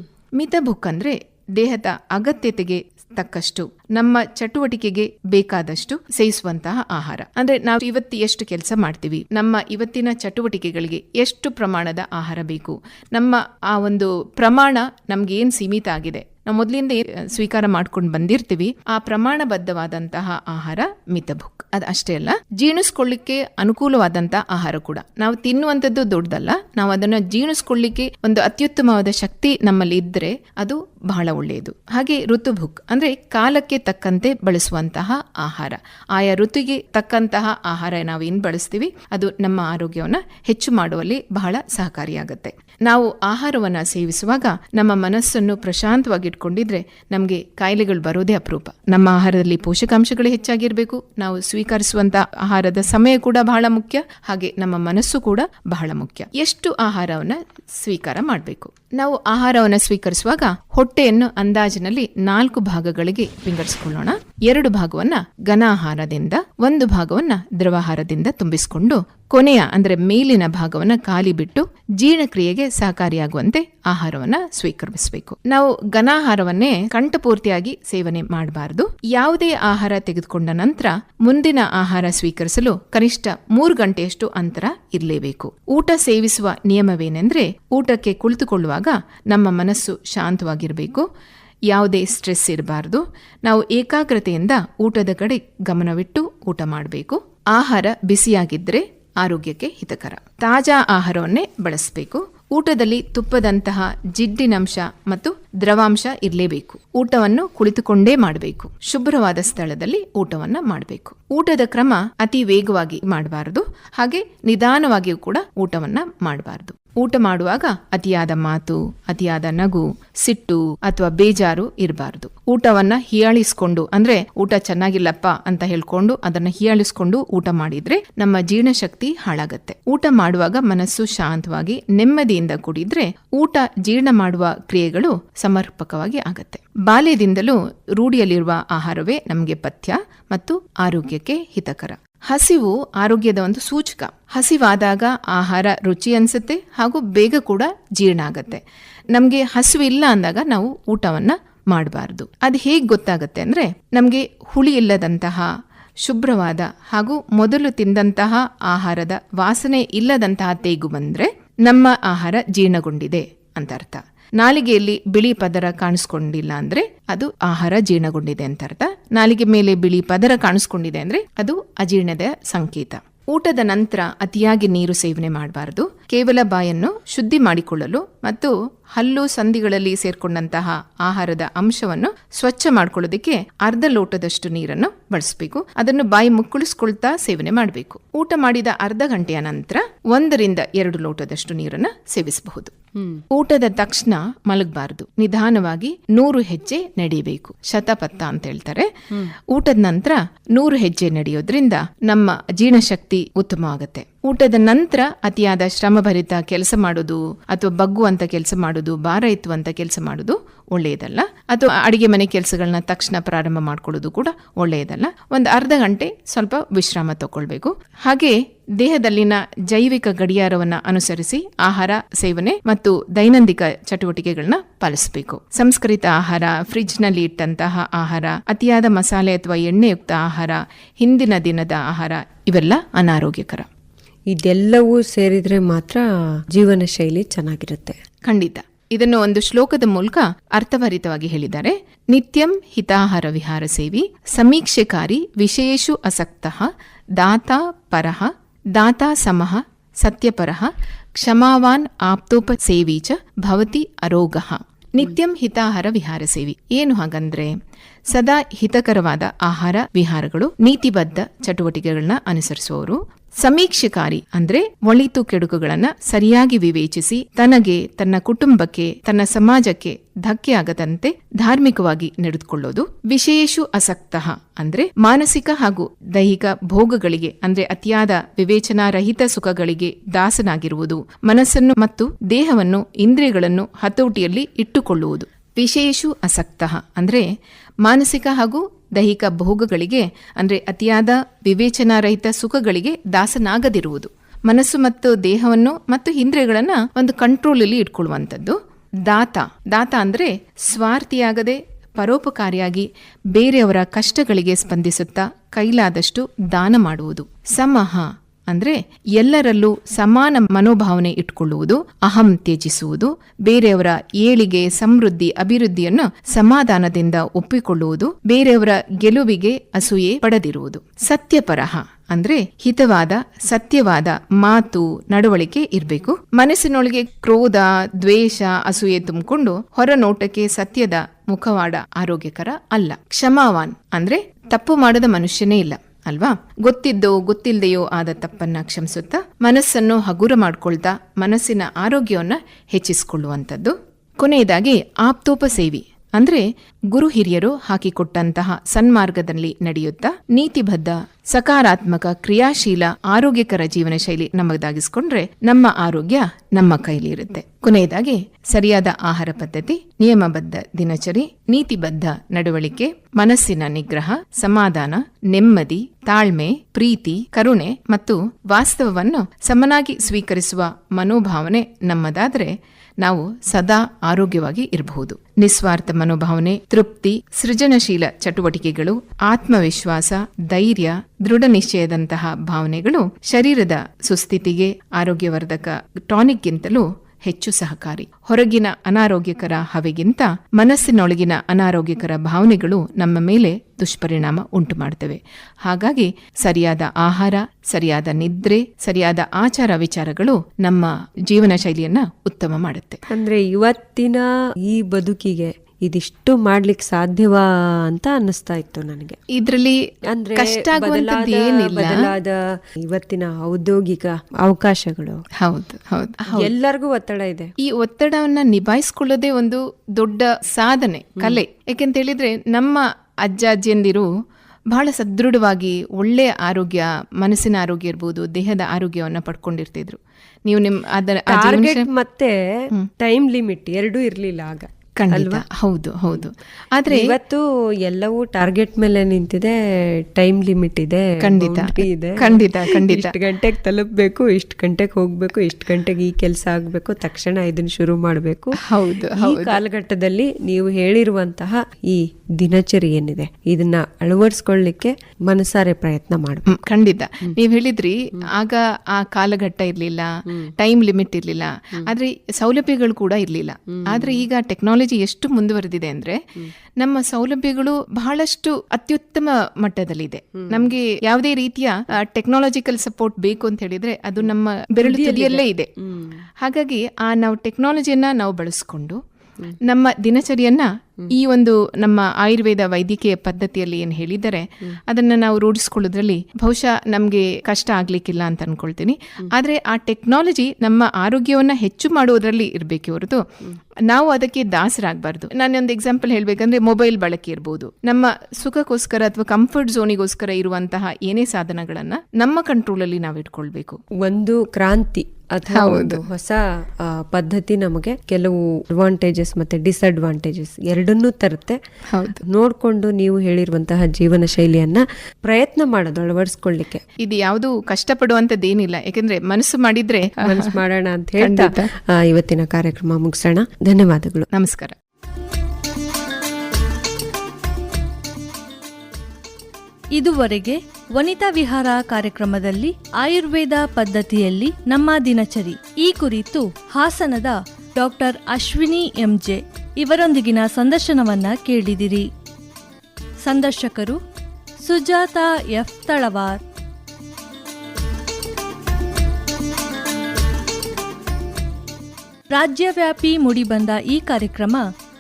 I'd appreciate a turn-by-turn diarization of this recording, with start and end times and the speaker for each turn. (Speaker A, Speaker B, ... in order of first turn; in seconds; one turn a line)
Speaker A: 0.4-91.1
Speaker A: 91.7-148.6
Speaker A: 149.1-155.5
Speaker A: 156.0-192.8
Speaker A: 193.3-233.7
Speaker B: 234.3-238.0
Speaker A: 238.3-257.5
Speaker A: 258.1-287.3
Speaker A: 287.8-403.0
Speaker B: 403.1-409.2
Speaker A: 409.3-409.8
Speaker B: 410.1-415.2
Speaker A: 410.3-412.1
Speaker A: 415.4-416.5
Speaker B: 416.3-417.5
Speaker A: 417.6-424.1
Speaker A: 424.7-431.9
Speaker B: 431.3-432.3
Speaker B: 433.0-435.5
Speaker A: 435.0-437.1
Speaker B: 436.9-456.6
Speaker A: 441.2-443.1
Speaker A: 448.6-449.6
Speaker A: 456.5-466.2
Speaker B: 463.9-464.2
Speaker A: 466.8-475.7
Speaker B: 474.8-476.2
Speaker A: 476.4-479.0
Speaker A: 479.6-493.2
Speaker A: 493.9-503.8
Speaker B: 504.0-511.6
Speaker A: 505.5-506.0
Speaker A: 511.9-512.2
Speaker B: 512.2-516.8
Speaker A: 517.0-520.6
Speaker B: 520.2-524.3
Speaker A: 521.2-521.7
Speaker A: 524.3-524.8
Speaker C: 530.0-542.1
Speaker C: 543.2-544.0
Speaker C: 544.6-546.4
Speaker C: 552.3-554.6